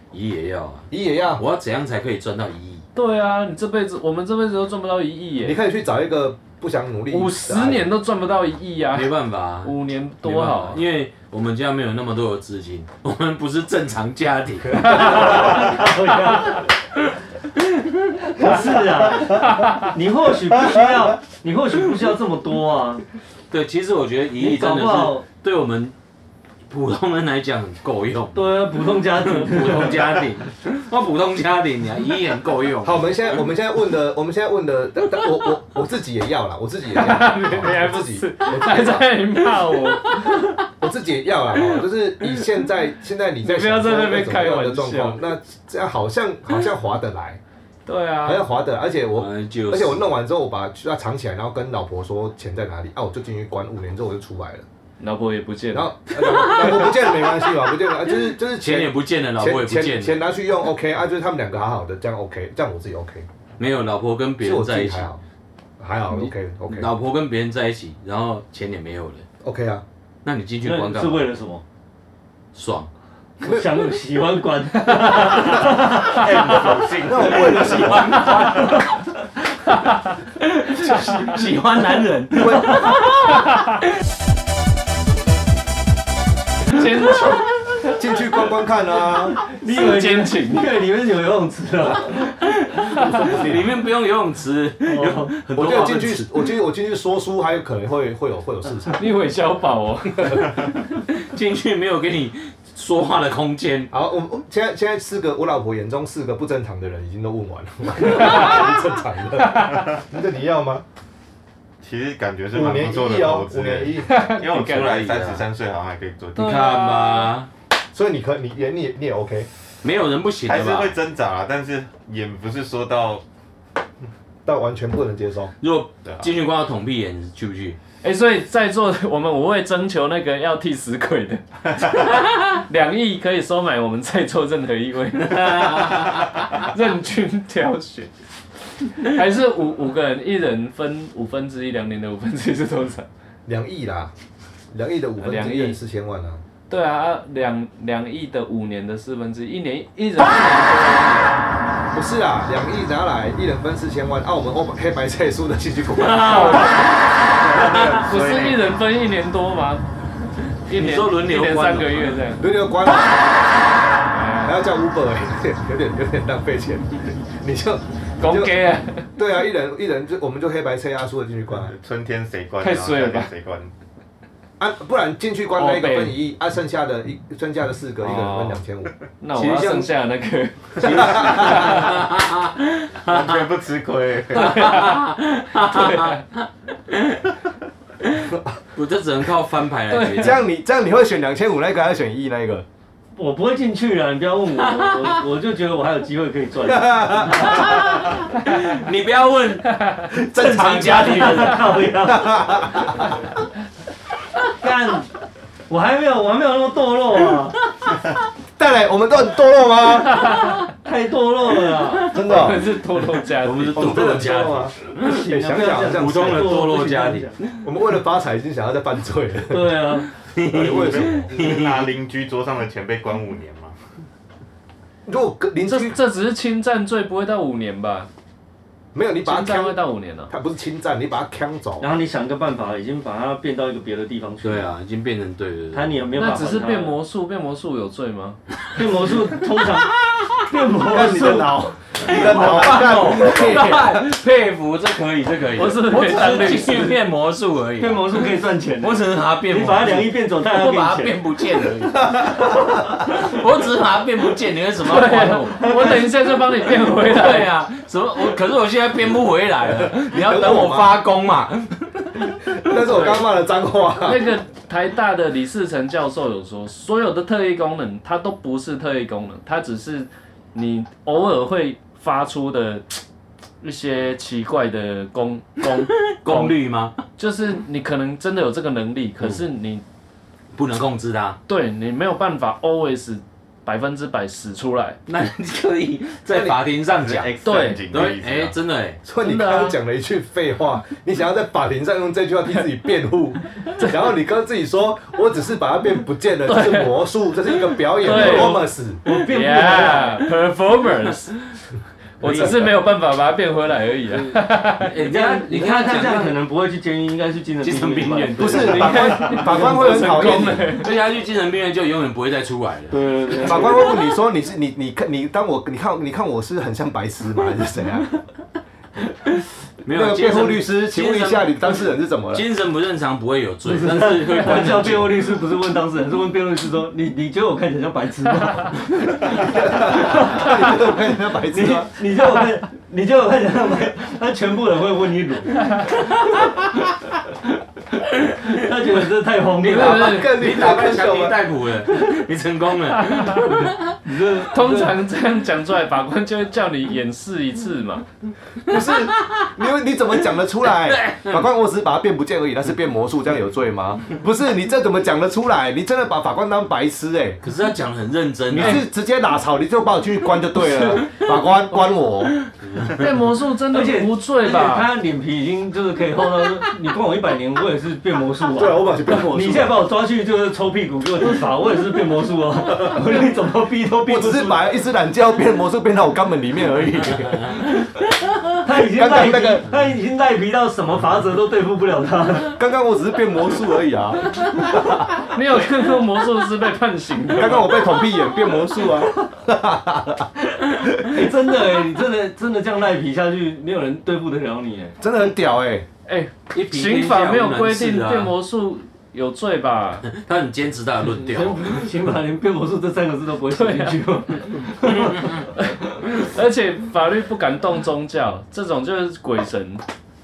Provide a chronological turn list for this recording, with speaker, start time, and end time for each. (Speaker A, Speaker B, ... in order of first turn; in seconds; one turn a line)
Speaker A: 0.1-2.9
Speaker B: 0.9-1.4
Speaker C: 3.0-5.6
Speaker B: 5.4-7.9
Speaker C: 7.1-10.8
Speaker A: 8.9-15.2
Speaker C: 14.8-15.6
Speaker D: 14.9-16.7
Speaker D: 18.2-23.1
Speaker C: 19.4-19.9
Speaker A: 23.5-26.0
Speaker D: 24.4-25.2
Speaker A: 26.7-33.1
Speaker D: 28.3-30.3
Speaker B: 32.8-39.1
Speaker C: 36.9-40.6
Speaker B: 40.4-47.4
Speaker C: 43.4-45.2
Speaker C: 47.9-48.4
Speaker B: 48.2-54.7
Speaker A: 49.2-50.1
Speaker C: 55.0-56.8
Speaker B: 55.7-63.3
Speaker A: 56.2-57.2
Speaker A: 58.5-60.2
Speaker A: 63.6-65.1
Speaker B: 64.4-65.2
Speaker B: 65.8-66.9
Speaker A: 66.2-69.2
Speaker B: 69.4-69.8
Speaker A: 70.2-71.3
Speaker D: 70.7-71.6
Speaker A: 72.5-72.9
Speaker D: 73.4-76.3
Speaker B: 73.4-73.7
Speaker C: 74.9-75.6
Speaker E: 76.0-78.8
Speaker B: 76.3-78.4
Speaker A: 77.5-78.8
Speaker C: 78.2-78.6
Speaker D: 78.4-78.8
Speaker C: 79.7-80.2
Speaker A: 80.4-83.1
Speaker C: 80.9-81.2
Speaker B: 82.3-83.0
Speaker C: 82.8-83.6
Speaker C: 86.7-88.0
Speaker B: 87.9-89.4
Speaker D: 89.4-92.3
Speaker C: 89.5-90.7
Speaker A: 92.6-96.4
Speaker C: 93.0-93.4
Speaker B: 93.1-93.6
Speaker D: 94.8-95.4
Speaker B: 95.5-99.1
Speaker C: 98.9-100.8
Speaker A: 101.1-103.9
Speaker B: 103.9-110.8
Speaker C: 108.1-108.7
Speaker C: 109.4-109.9
Speaker E: 111.8-116.7
Speaker B: 112.5-114.2
Speaker C: 114.0-115.0
Speaker A: 114.5-115.5
Speaker A: 116.3-117.5
Speaker C: 116.4-117.3
Speaker B: 117.9-119.5
Speaker A: 119.8-121.0
Speaker E: 120.5-123.2
Speaker B: 124.5-125.5
Speaker A: 125.6-127.8
Speaker E: 126.0-126.3
Speaker C: 128.0-138.1
Speaker A: 135.2-136.7
Speaker C: 138.6-143.1
Speaker B: 143.5-144.1
Speaker B: 144.7-146.4
Speaker C: 145.2-145.8
Speaker C: 146.7-151.4
Speaker B: 151.9-156.8
Speaker A: 155.9-158.0
Speaker C: 156.1-157.0
Speaker B: 157.4-158.6
Speaker C: 157.7-159.8
Speaker A: 160.7-162.2
Speaker C: 160.7-162.5
Speaker B: 162.4-163.7
Speaker C: 164.1-164.6
Speaker B: 164.4-168.5
Speaker C: 168.2-169.1
Speaker B: 169.2-171.8
Speaker E: 171.6-173.7
Speaker C: 172.6-173.3
Speaker B: 174.6-179.9
Speaker C: 175.6-176.2
Speaker C: 178.0-178.6
Speaker C: 179.2-182.0
Speaker B: 180.8-181.8
Speaker A: 180.8-183.5
Speaker E: 183.1-184.7
Speaker C: 184.3-185.0
Speaker A: 184.3-187.3
Speaker C: 185.6-186.2
Speaker A: 188.0-190.4
Speaker B: 188.2-188.6
Speaker C: 189.9-190.4
Speaker B: 190.2-192.7
Speaker D: 193.2-197.7
Speaker A: 194.6-195.2
Speaker B: 196.6-198.0
Speaker A: 197.3-199.8
Speaker C: 199.8-200.1
Speaker B: 200.1-203.2
Speaker A: 200.3-201.9
Speaker D: 200.8-202.9
Speaker D: 204.5-205.1
Speaker D: 205.7-207.6
Speaker B: 208.6-210.4
Speaker C: 210.2-210.6
Speaker D: 210.8-212.2
Speaker B: 212.1-212.7
Speaker C: 212.2-213.9
Speaker A: 213.3-215.2
Speaker B: 213.7-216.6
Speaker D: 215.0-217.4
Speaker A: 215.8-217.7
Speaker B: 217.6-219.8
Speaker D: 219.5-220.1
Speaker A: 220.2-221.9
Speaker B: 220.4-221.3
Speaker E: 220.7-223.8
Speaker B: 225.1-226.0
Speaker C: 225.7-228.1
Speaker B: 228.9-229.8
Speaker C: 229.2-230.3
Speaker B: 230.3-231.9
Speaker D: 231.8-234.7
Speaker A: 234.4-236.1
Speaker D: 235.7-237.0
Speaker C: 236.2-238.6
Speaker D: 238.8-241.7
Speaker A: 239.7-240.5
Speaker B: 240.8-244.0
Speaker A: 242.0-256.1
Speaker C: 245.6-247.0
Speaker D: 247.8-251.2
Speaker B: 252.1-252.8
Speaker C: 254.8-257.5
Speaker A: 256.7-262.2
Speaker B: 259.8-261.0
Speaker B: 262.5-264.3
Speaker C: 262.8-263.2
Speaker C: 264.0-273.0
Speaker C: 273.6-276.6
Speaker A: 275.6-277.0
Speaker C: 277.2-279.8
Speaker A: 280.6-281.4
Speaker C: 281.5-285.0
Speaker A: 285.1-287.3
Speaker B: 286.3-286.6
Speaker E: 287.0-288.6
Speaker C: 287.4-288.1
Speaker A: 287.9-289.0
Speaker B: 289.1-299.0
Speaker C: 289.2-289.8
Speaker C: 296.5-297.0
Speaker C: 298.0-301.4
Speaker D: 298.0-300.3
Speaker C: 302.2-305.0
Speaker A: 302.2-302.8
Speaker B: 302.2-302.6
Speaker A: 304.8-306.4
Speaker D: 305.1-309.8
Speaker A: 307.6-313.9
Speaker B: 308.4-310.8
Speaker C: 308.6-310.9
Speaker D: 313.0-313.8
Speaker C: 313.2-313.7
Speaker B: 313.4-318.2
Speaker A: 319.8-325.4
Speaker B: 319.9-322.4
Speaker D: 323.6-330.7
Speaker B: 329.4-331.9
Speaker D: 331.5-336.5
Speaker D: 338.3-340.2
Speaker A: 339.6-344.0
Speaker C: 339.7-340.3
Speaker B: 339.7-341.4
Speaker C: 342.9-343.7
Speaker D: 344.1-345.0
Speaker C: 344.4-348.1
Speaker B: 348.7-357.4
Speaker A: 348.7-349.6
Speaker A: 350.6-351.5
Speaker A: 357.4-358.9
Speaker B: 358.5-362.4
Speaker C: 360.6-361.1
Speaker A: 362.7-363.0
Speaker C: 362.9-364.9
Speaker D: 363.7-374.6
Speaker B: 368.6-369.9
Speaker C: 372.9-373.3
Speaker B: 374.1-377.6
Speaker D: 378.6-382.6
Speaker B: 378.8-379.7
Speaker B: 382.5-385.1
Speaker C: 385.2-388.0
Speaker B: 387.3-390.3
Speaker B: 390.8-391.2
Speaker D: 390.9-395.0
Speaker B: 395.0-395.9
Speaker C: 396.1-400.1
Speaker A: 396.5-398.3
Speaker A: 400.1-401.8
Speaker D: 401.3-405.5
Speaker C: 403.5-409.8